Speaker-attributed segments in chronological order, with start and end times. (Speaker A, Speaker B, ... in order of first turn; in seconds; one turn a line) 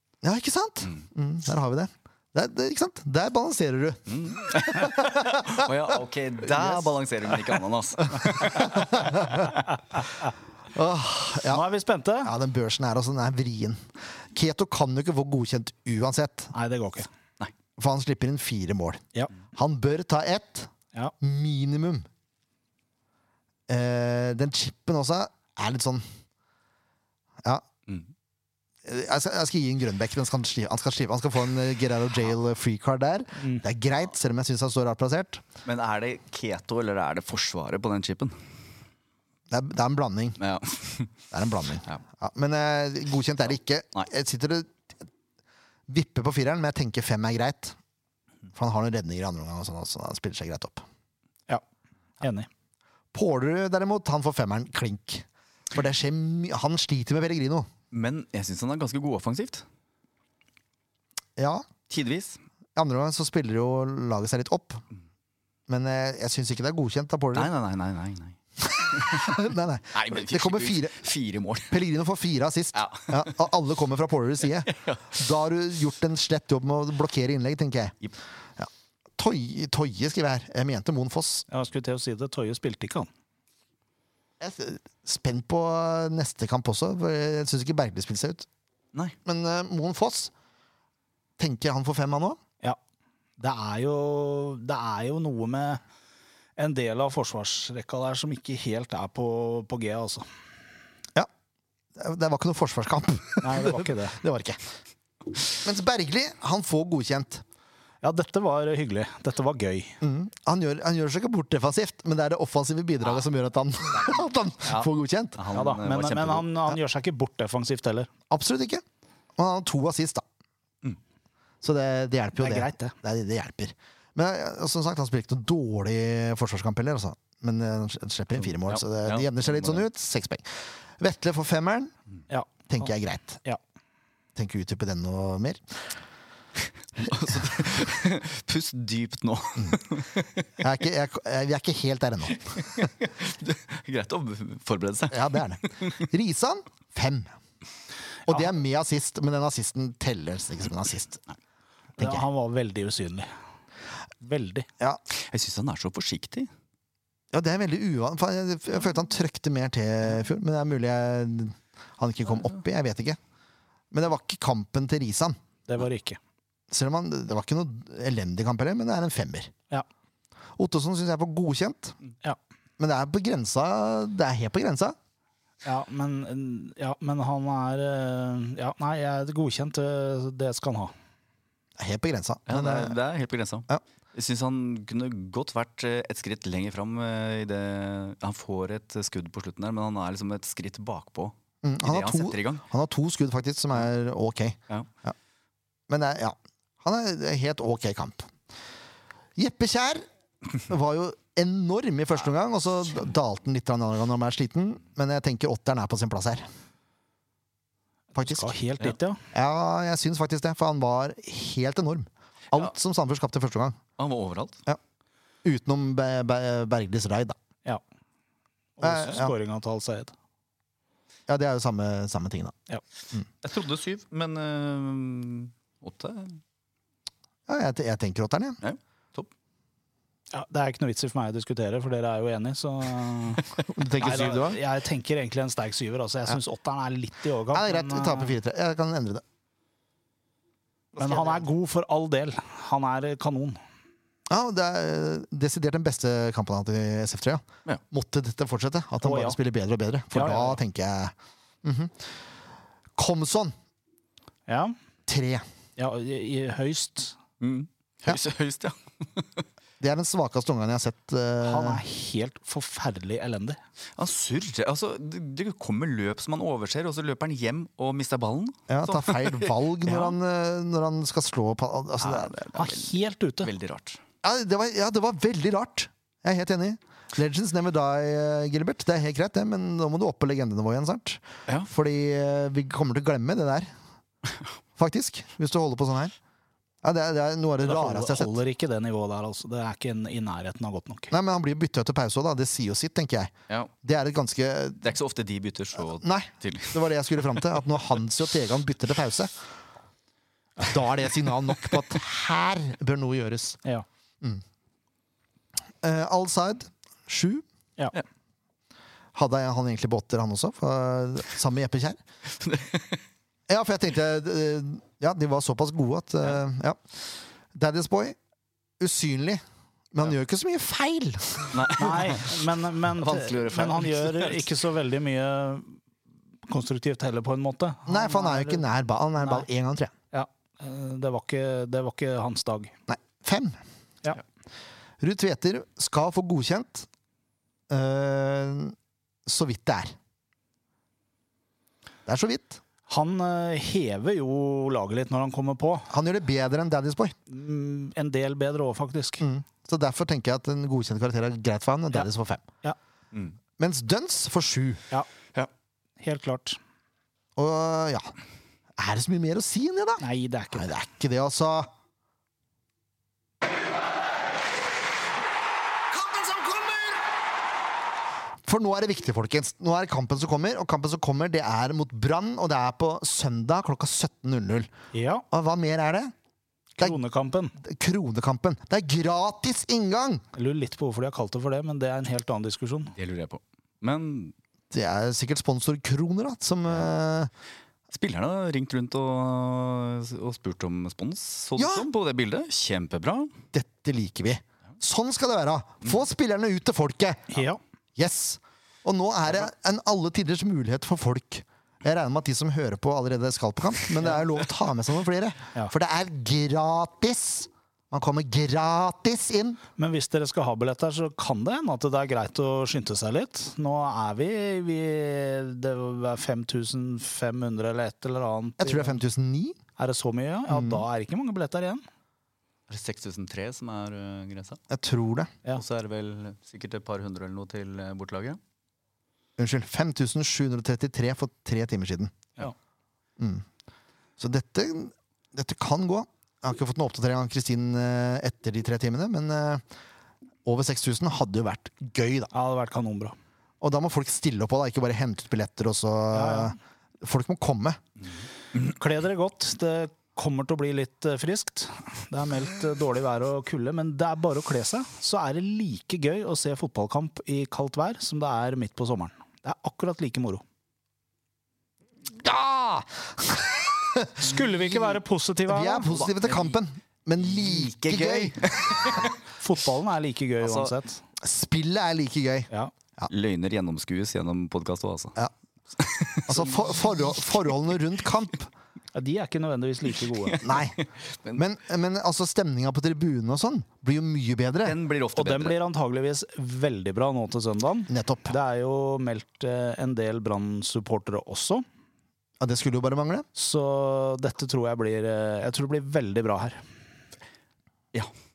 Speaker A: 0.2-5.7
Speaker B: 4.1-9.5
Speaker A: 6.5-6.8
Speaker A: 8.2-9.5
Speaker A: 10.7-11.6
Speaker C: 11.5-12.3
Speaker A: 12.2-13.8
Speaker A: 14.3-16.5
Speaker C: 16.5-17.1
Speaker A: 17.8-22.1
Speaker A: 23.7-26.0
Speaker A: 28.8-35.4
Speaker B: 35.6-38.4
Speaker A: 39.5-40.4
Speaker B: 40.4-41.1
Speaker A: 41.3-45.0
Speaker A: 45.9-47.8
Speaker A: 48.5-50.9
Speaker C: 52.2-52.5
Speaker A: 53.1-57.7
Speaker B: 57.9-59.6
Speaker A: 61.4-61.7
Speaker B: 61.9-62.4
Speaker A: 62.8-64.8
Speaker A: 65.7-67.5
Speaker B: 67.3-71.8
Speaker A: 68.7-71.1
Speaker A: 71.7-78.0
Speaker B: 72.7-73.4
Speaker B: 74.7-75.2
Speaker A: 78.6-81.4
Speaker C: 81.5-83.1
Speaker A: 84.4-88.5
Speaker A: 89.2-90.3
Speaker A: 91.4-92.4
Speaker C: 93.4-95.8
Speaker C: 96.6-100.2
Speaker A: 102.0-104.6
Speaker C: 103.4-104.2
Speaker A: 105.5-107.4
Speaker C: 108.0-110.0
Speaker A: 110.0-115.4
Speaker B: 114.6-116.5
Speaker C: 115.5-118.1
Speaker A: 118.3-118.8
Speaker A: 119.4-120.2
Speaker A: 121.6-130.4
Speaker C: 122.3-122.9
Speaker B: 128.6-129.8
Speaker A: 131.0-131.9
Speaker C: 132.3-132.7
Speaker A: 132.7-133.4
Speaker A: 134.3-135.8
Speaker B: 137.0-140.5
Speaker A: 140.6-142.6
Speaker B: 142.6-146.0
Speaker A: 145.1-147.3
Speaker A: 148.3-151.2
Speaker A: 152.0-152.2
Speaker C: 152.0-153.3
Speaker C: 154.2-154.7
Speaker B: 155.1-156.5
Speaker A: 157.3-163.2
Speaker A: 163.9-165.4
Speaker C: 165.7-166.2
Speaker A: 166.7-169.5
Speaker A: 170.6-171.9
Speaker A: 172.8-175.0
Speaker C: 175.6-180.9
Speaker A: 181.8-183.0
Speaker B: 182.5-192.6
Speaker A: 191.6-195.1
Speaker A: 195.9-198.3
Speaker A: 199.3-200.0
Speaker A: 200.6-206.4
Speaker C: 208.1-209.2
Speaker A: 208.2-208.5
Speaker A: 209.3-213.8
Speaker B: 214.0-214.6
Speaker A: 215.4-217.3
Speaker C: 218.8-220.1
Speaker A: 218.8-219.3
Speaker A: 221.3-222.5
Speaker B: 223.4-226.4
Speaker A: 227.5-228.6
Speaker B: 228.6-229.3
Speaker C: 230.3-233.4
Speaker A: 233.7-234.6
Speaker C: 234.0-238.3
Speaker A: 237.5-239.2
Speaker A: 240.9-241.4
Speaker C: 241.0-243.6
Speaker A: 244.3-252.1
Speaker C: 249.0-249.4
Speaker C: 250.1-250.6
Speaker A: 253.0-253.5
Speaker C: 254.5-254.7
Speaker A: 255.1-255.4
Speaker C: 255.8-257.1
Speaker B: 257.4-259.4
Speaker A: 259.8-261.8
Speaker C: 261.4-263.6
Speaker B: 264.0-270.2
Speaker A: 268.7-272.3
Speaker B: 272.0-274.0
Speaker C: 272.5-273.5
Speaker A: 274.2-283.7
Speaker A: 284.8-286.1
Speaker A: 286.8-288.3
Speaker C: 287.6-291.1
Speaker A: 291.1-293.3
Speaker A: 293.8-294.9
Speaker B: 294.8-296.8
Speaker A: 295.8-299.3
Speaker A: 300.6-303.6
Speaker A: 305.8-307.4
Speaker A: 309.1-312.0
Speaker B: 312.4-313.0
Speaker A: 313.5-316.8
Speaker A: 317.5-318.2
Speaker A: 318.8-321.7
Speaker B: 321.5-324.5
Speaker C: 321.8-325.8
Speaker C: 326.5-328.6
Speaker A: 327.9-329.9
Speaker C: 330.1-332.7
Speaker A: 332.9-333.6
Speaker A: 335.0-336.9
Speaker A: 337.7-339.9
Speaker A: 342.1-342.6
Speaker C: 342.9-345.9
Speaker A: 345.9-347.1
Speaker C: 347.3-349.2
Speaker A: 349.2-352.4
Speaker A: 353.6-354.8
Speaker C: 356.0-356.6
Speaker A: 357.4-358.1
Speaker A: 358.8-361.7
Speaker C: 360.0-360.7
Speaker A: 368.4-374.7
Speaker C: 374.9-375.2
Speaker A: 375.3-376.1
Speaker C: 376.8-377.6
Speaker A: 377.6-380.2
Speaker C: 380.3-382.9
Speaker B: 382.9-384.3
Speaker A: 384.7-387.3
Speaker B: 387.9-393.3
Speaker A: 391.6-391.9
Speaker A: 393.5-397.4
Speaker C: 397.3-397.6
Speaker A: 397.9-409.6
Speaker C: 409.8-419.0
Speaker A: 418.6-419.6
Speaker C: 419.8-421.8
Speaker A: 420.5-420.8
Speaker B: 422.7-424.6
Speaker A: 424.7-425.3
Speaker B: 425.5-428.4
Speaker A: 429.4-432.1
Speaker A: 433.2-433.4
Speaker A: 434.2-439.6
Speaker A: 440.4-442.3
Speaker C: 442.3-443.1
Speaker A: 443.6-447.8
Speaker C: 446.1-446.5
Speaker C: 448.7-460.4
Speaker A: 462.1-469.0
Speaker C: 464.2-466.0
Speaker B: 466.1-466.6
Speaker B: 467.2-469.1
Speaker C: 469.4-471.0
Speaker B: 470.4-470.7
Speaker A: 471.2-473.1
Speaker B: 473.1-475.1
Speaker B: 475.8-476.7
Speaker A: 476.2-478.5
Speaker C: 478.9-480.4
Speaker B: 480.3-481.4
Speaker A: 480.4-480.8
Speaker A: 481.3-484.8
Speaker B: 484.6-485.6
Speaker C: 485.1-491.6
Speaker A: 487.9-488.3
Speaker A: 492.4-493.2
Speaker C: 493.4-496.6